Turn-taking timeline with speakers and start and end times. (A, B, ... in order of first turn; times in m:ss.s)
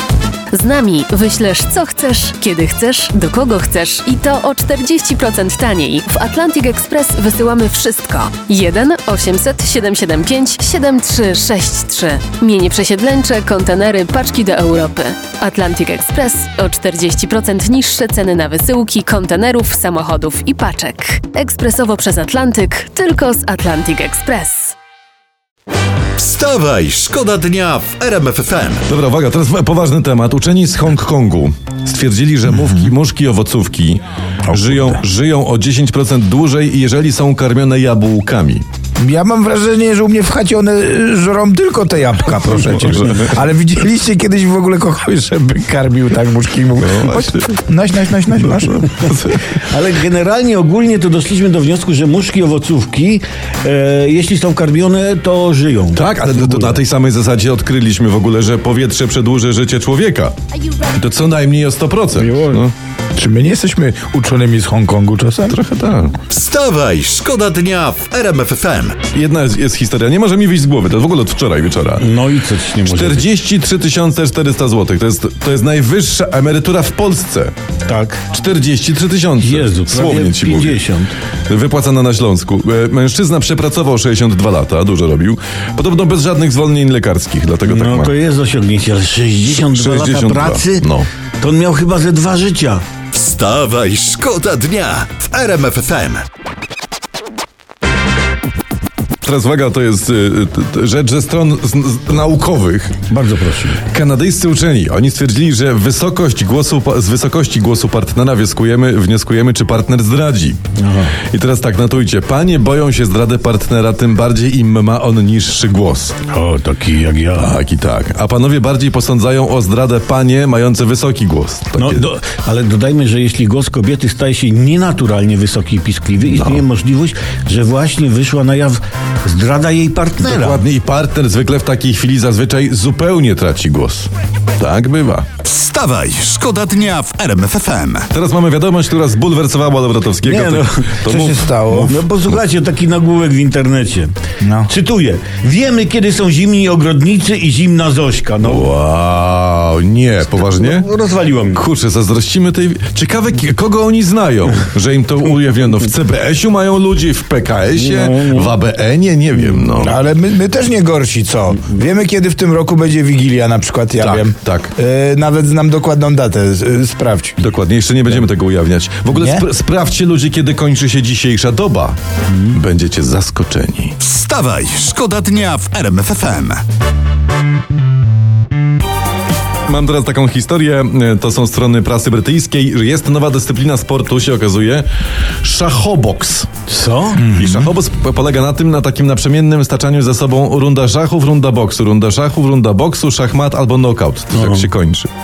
0:00.5-0:24.8 A
0:26.2-0:28.8 B
0:28.9-0:38.6 C
0:34.5-0:35.0 D
0:39.0-0:49.1 D
0:42.7-0:43.2 C
0:46.8-0:47.6 C
0:49.0-0:49.6 C
0:49.6-0:56.8 E
0:55.9-1:00.4 C
1:00.9-1:02.7 C
1:03.2-1:05.6 D
1:05.5-1:06.2 C
1:06.3-1:09.0 B
1:09.1-1:12.1 C
1:12.0-1:13.2 E
1:12.7-1:17.5 C
1:17.9-1:18.2 E
1:18.3-1:20.9 C
1:19.4-1:21.1 E
1:21.5-1:28.2 C
1:27.7-1:30.8 E
1:29.4-1:31.1 C
1:31.4-1:32.8 E
1:33.1-1:36.2 B
1:39.2-1:43.0 C
1:43.1-1:43.8 E
1:43.9-1:50.6 C
1:50.8-1:51.2 E
1:51.3-1:56.2 C
1:56.3-1:57.5 E
1:57.3-2:02.1 C
2:01.8-2:10.6 E
2:06.3-2:06.6 C
2:10.2-2:15.3 C
2:15.4-2:18.1 B
2:18.1-2:22.4 C
2:20.2-2:20.6 E
2:21.0-2:22.0 D
2:21.9-2:24.1 E
2:24.4-2:24.7 D
2:24.7-2:28.7 E
2:28.4-2:30.9 C
2:30.4-2:31.6 E
2:31.5-2:40.0 C
2:38.1-2:38.4 E
2:39.8-2:47.4 D
2:44.0-2:44.7 C
2:47.4-2:52.0 C
2:49.1-2:49.4 D
2:52.5-2:54.0 C
2:54.0-2:56.6 B
2:59.7-3:04.9 C
3:05.4-3:06.5 C
3:06.7-3:07.2 E
3:07.2-3:07.7 D
3:07.4-3:15.1 C
3:14.4-3:14.7 E